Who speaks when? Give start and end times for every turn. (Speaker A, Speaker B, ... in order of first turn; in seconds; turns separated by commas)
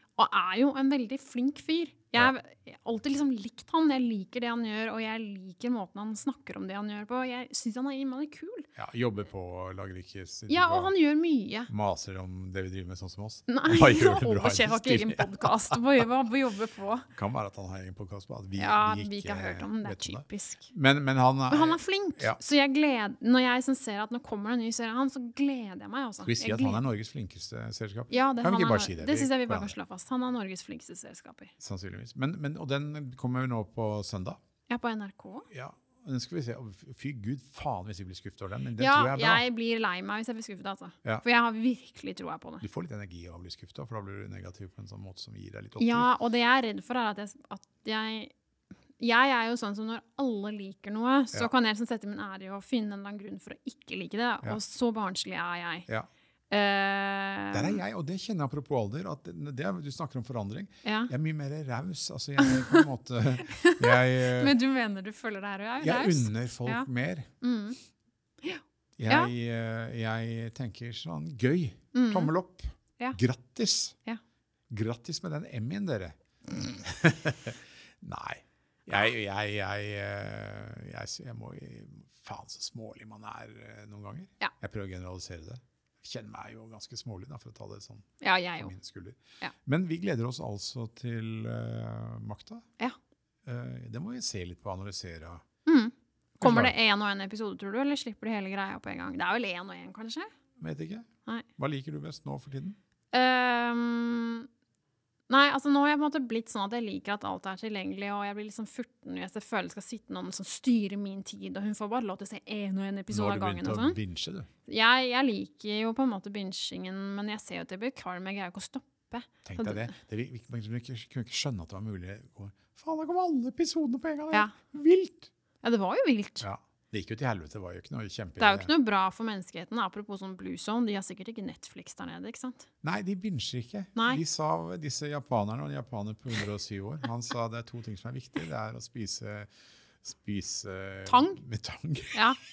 Speaker A: 0.2-8.7, Speaker B: 8.8-10.9, Speaker A: 10.5-11.7, Speaker B: 11.7-16.1, Speaker A: 13.5-17.1, Speaker B: 17.1-22.4, Speaker A: 18.6-20.7, Speaker A: 21.5-26.8, Speaker B: 26.2-29.8, Speaker A: 28.1-31.5, Speaker B: 31.6-34.4, Speaker A: 34.7-35.5, Speaker B: 35.5-39.4, Speaker A: 38.8-42.6, Speaker B: 42.6-46.1, Speaker A: 45.8-48.3, Speaker A: 49.0-55.9, Speaker A: 56.5-57.8, Speaker B: 57.5-64.6, Speaker A: 60.8-61.1, Speaker A: 62.4-62.9, Speaker A: 63.5-66.9, Speaker B: 65.8-67.3, Speaker A: 67.4-67.8, Speaker A: 68.4-69.3, Speaker B: 69.0-74.0, Speaker A: 71.9-72.3, Speaker B: 74.7-92.7, Speaker A: 88.2-88.7, Speaker B: 93.5-95.4, Speaker A: 95.7-100.3, Speaker B: 96.4-96.7, Speaker B: 100.6-102.8, Speaker A: 103.1-104.5, Speaker A: 105.3-114.0, Speaker B: 113.1-114.5, Speaker A: 114.7-119.9, Speaker B: 119.5-125.3, Speaker A: 125.6-126.5, Speaker B: 126.4-128.7, Speaker A: 128.4-132.7, Speaker B: 132.8-139.5, Speaker A: 133.9-134.2, Speaker B: 140.0-142.2, Speaker A: 141.1-141.4